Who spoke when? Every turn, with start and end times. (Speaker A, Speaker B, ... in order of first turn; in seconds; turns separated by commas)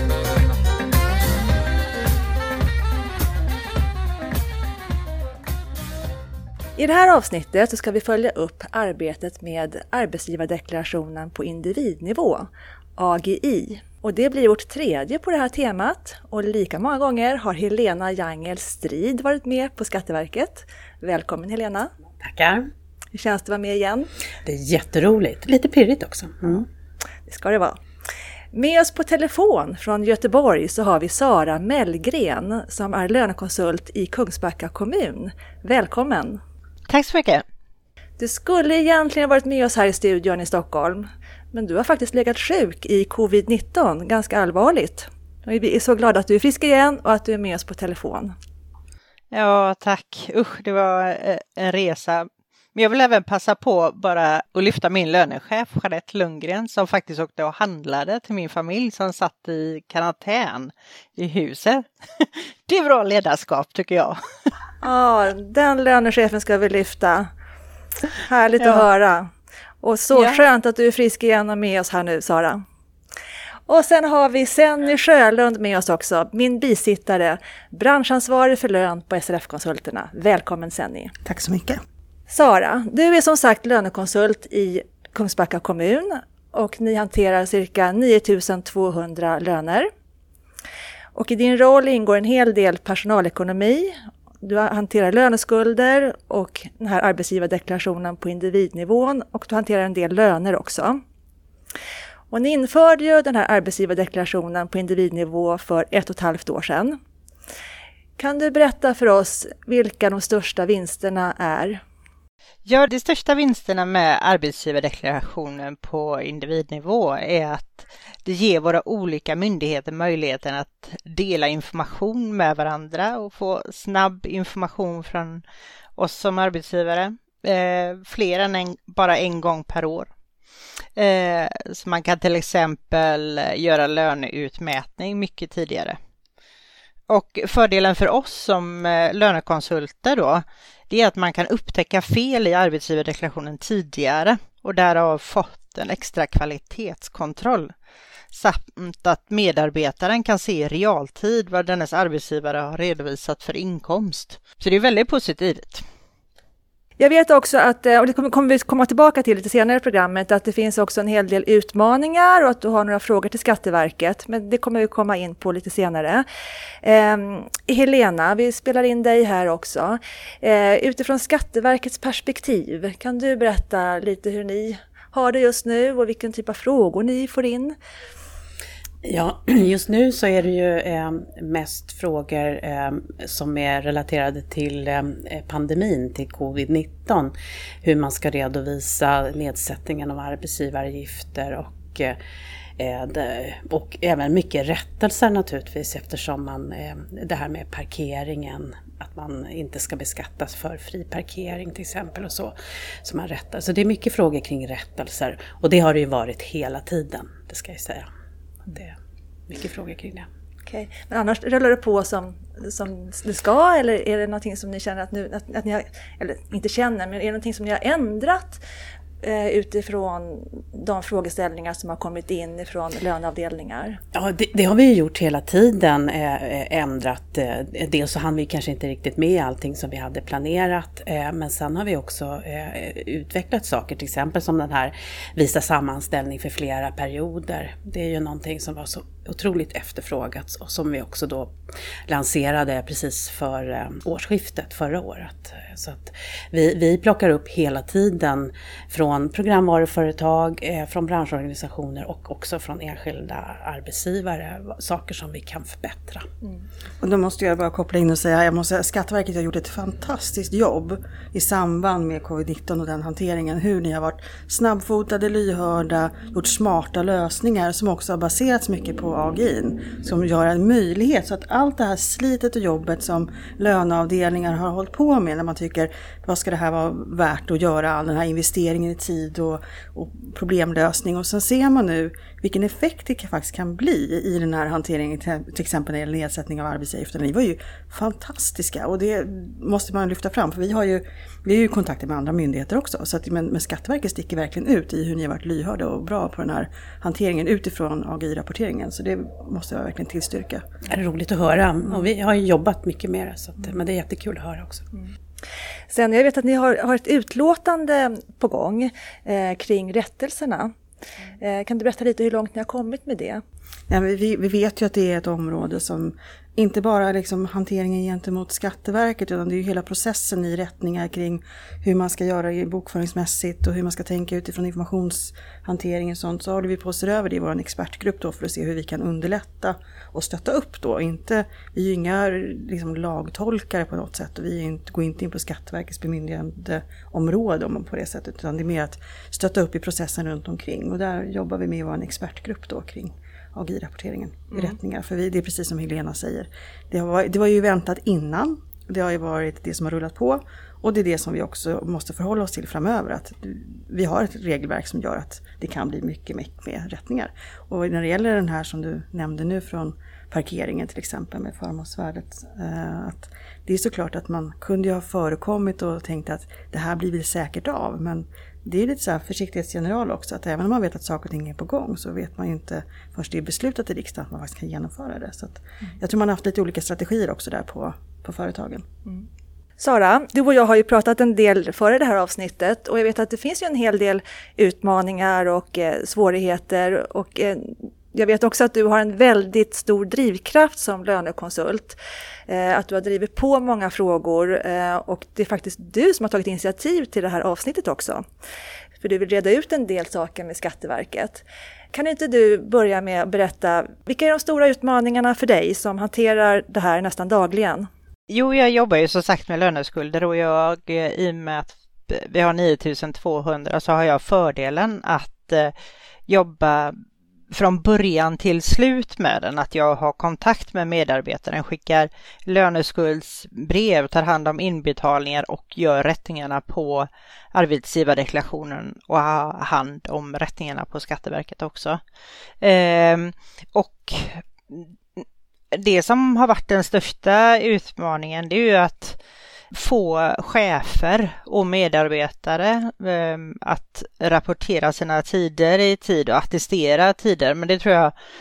Speaker A: 6.8-21.9, Speaker B: 22.2-22.7, Speaker A: 23.1-24.1, Speaker B: 24.4-26.7, Speaker A: 27.3-27.8, Speaker A: 28.5-36.4, Speaker C: 36.9-37.4, Speaker A: 38.2-48.3, Speaker C: 49.3-64.2, Speaker A: 64.8-67.3, Speaker A: 68.2-69.3, Speaker A: 69.8-72.6, Speaker A: 73.7-81.1, Speaker D: 81.2-81.8, Speaker A: 82.3-89.9, Speaker A: 91.1-101.0, Speaker A: 102.3-107.0, Speaker A: 108.2-111.8, Speaker C: 112.6-125.4, Speaker C: 126.0-130.1, Speaker C: 130.9-136.0, Speaker C: 137.1-147.7, Speaker C: 148.3-155.8, Speaker A: 157.0-166.2, Speaker A: 166.8-177.7, Speaker B: 179.0-192.2, Speaker B: 192.8-208.1, Speaker B: 208.7-209.0, Speaker B: 209.5-210.3, Speaker A: 210.7-218.6, Speaker A: 219.2-224.0, Speaker B: 224.1-241.5, Speaker B: 242.1-256.2, Speaker D: 257.0-300.6, Speaker B: 300.9-304.9, Speaker A: 305.9-310.7, Speaker A: 311.4-313.4, Speaker D: 313.9-378.8, Speaker A: 379.8-392.0, Speaker A: 392.5-398.2, Speaker A: 399.0-407.9, Speaker C: 408.3-415.7, Speaker C: 416.3-417.0, Speaker C: 417.5-432.0, Speaker C: 432.6-435.2, Speaker C: 435.7-439.2, Speaker C: 439.7-448.1